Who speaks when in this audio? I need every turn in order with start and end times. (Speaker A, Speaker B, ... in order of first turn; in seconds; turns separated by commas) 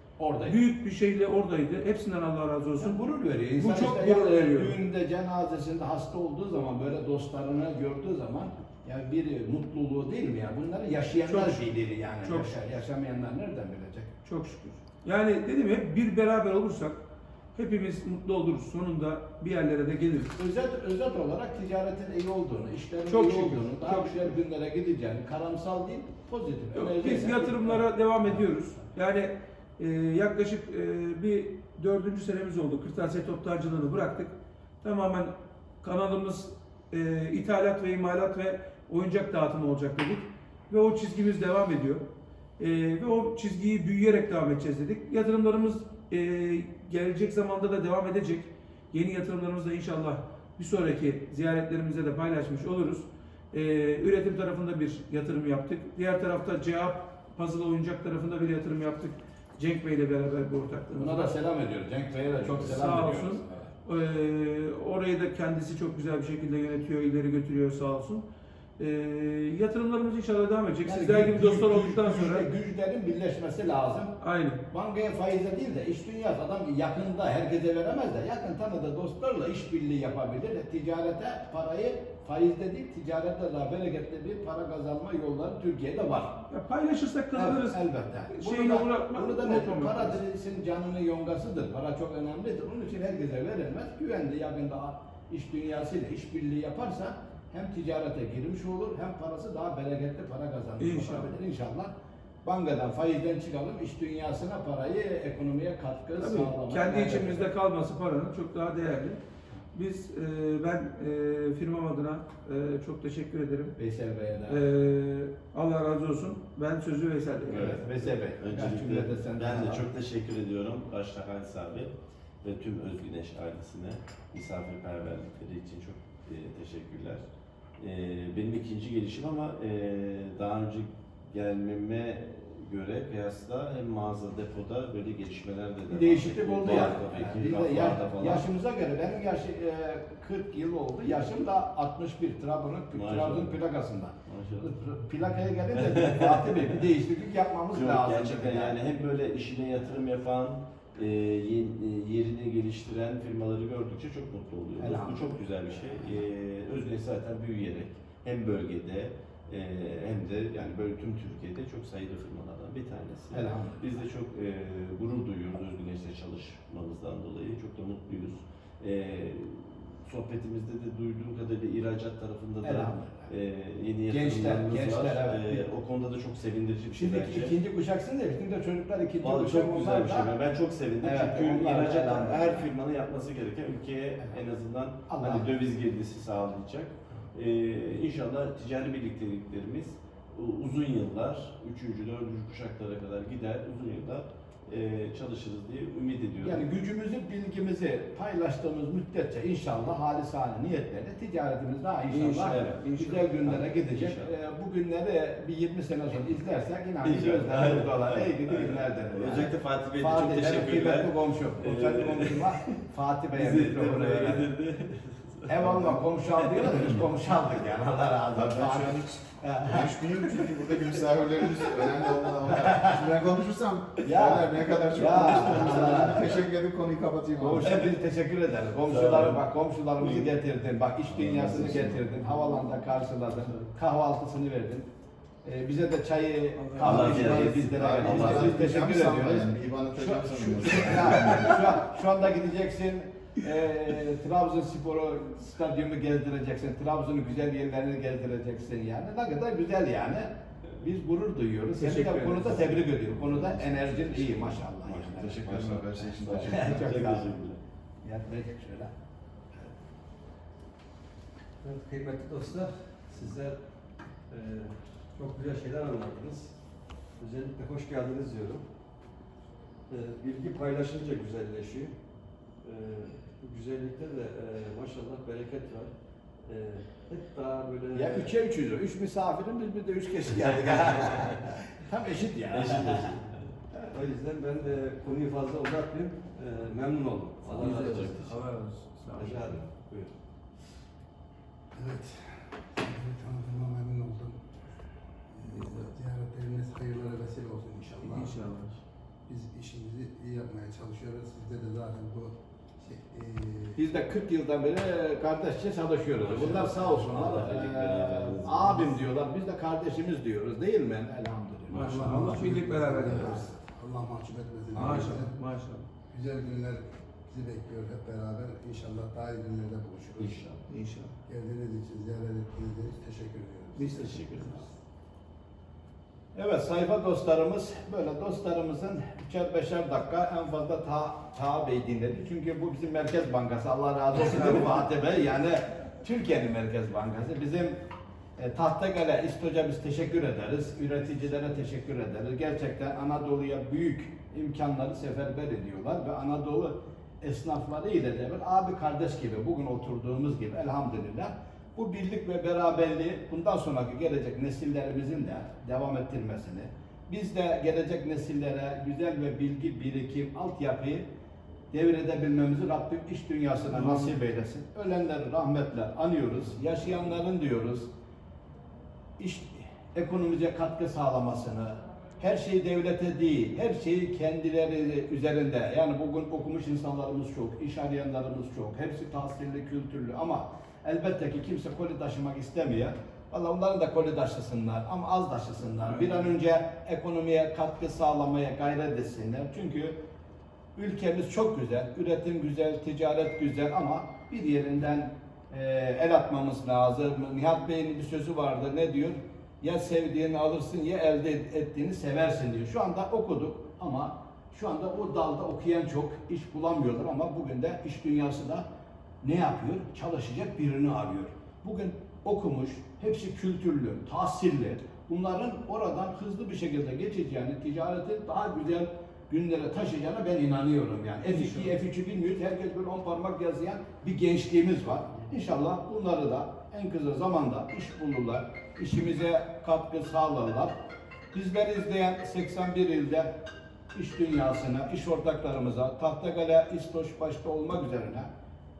Speaker A: 0.2-0.6, Speaker B: 0.4-3.0, Speaker A: 2.8-14.1, Speaker B: 3.5-4.8, Speaker B: 11.2-11.6, Speaker B: 12.2-12.5, Speaker B: 14.2-17.0, Speaker B: 17.5-20.3, Speaker A: 20.4-28.5, Speaker B: 23.1-24.4, Speaker B: 26.7-42.0, Speaker B: 42.6-61.3, Speaker A: 61.0-63.7, Speaker B: 62.6-68.2, Speaker B: 68.8-72.5, Speaker A: 70.8-74.1, Speaker B: 74.2-74.6, Speaker A: 74.7-86.4, Speaker B: 86.5-90.2, Speaker A: 87.3-101.9, Speaker B: 100.8-101.3, Speaker A: 102.4-107.5, Speaker B: 106.2-109.2, Speaker B: 109.7-113.8, Speaker A: 113.8-114.6, Speaker B: 114.5-117.8, Speaker C: 117.5-117.8, Speaker A: 117.5-119.8, Speaker C: 118.4-127.2, Speaker C: 127.8-138.4, Speaker A: 135.9-148.8, Speaker C: 142.9-143.6, Speaker C: 144.3-144.7, Speaker C: 146.1-146.4, Speaker C: 147.7-177.5, Speaker A: 154.8-155.4, Speaker A: 163.3-164.1, Speaker A: 172.6-173.3, Speaker A: 174.1-175.7, Speaker A: 176.9-180.3, Speaker C: 179.2-196.6, Speaker A: 181.0-182.7, Speaker A: 185.1-185.5, Speaker A: 196.4-214.5, Speaker B: 202.1-203.3, Speaker C: 202.3-202.8, Speaker C: 203.4-204.3, Speaker C: 207.0-212.8, Speaker C: 213.3-217.0, Speaker A: 215.5-220.4, Speaker D: 218.3-227.9, Speaker A: 221.4-221.9, Speaker A: 222.4-223.0, Speaker A: 224.0-226.4, Speaker C: 225.5-226.1, Speaker A: 227.4-234.8, Speaker C: 228.9-229.4, Speaker C: 230.0-230.3, Speaker D: 231.1-232.1, Speaker A: 235.4-257.3, Speaker B: 236.6-237.9, Speaker C: 236.8-238.6, Speaker D: 237.1-241.8, Speaker B: 251.8-253.0, Speaker C: 253.1-257.6, Speaker D: 255.2-256.9, Speaker A: 258.0-258.9, Speaker E: 261.6-263.6, Speaker E: 264.3-266.5, Speaker E: 267.2-268.6, Speaker E: 269.9-271.9, Speaker E: 272.6-275.9, Speaker E: 276.4-278.4, Speaker A: 277.9-283.2, Speaker C: 282.5-283.6, Speaker E: 283.9-288.4, Speaker C: 287.5-288.2, Speaker B: 287.7-289.6, Speaker E: 289.1-290.1, Speaker F: 291.7-294.4, Speaker F: 295.3-298.4, Speaker B: 295.4-295.9, Speaker B: 298.0-298.8, Speaker F: 299.3-303.8, Speaker A: 303.8-312.2, Speaker C: 306.2-308.7, Speaker F: 306.3-307.3, Speaker B: 311.7-313.5, Speaker F: 311.7-315.4, Speaker A: 313.2-313.4, Speaker B: 314.7-315.9, Speaker F: 316.1-320.4, Speaker C: 320.2-320.6, Speaker B: 320.7-321.1, Speaker F: 321.2-324.6, Speaker B: 323.8-324.6, Speaker A: 326.3-337.8, Speaker B: 334.2-334.6, Speaker A: 338.4-361.0, Speaker A: 361.7-367.9, Speaker B: 363.8-364.1, Speaker A: 369.2-390.0, Speaker B: 385.9-386.2, Speaker A: 390.8-408.6, Speaker A: 409.2-430.7, Speaker A: 431.3-433.3, Speaker A: 433.9-438.3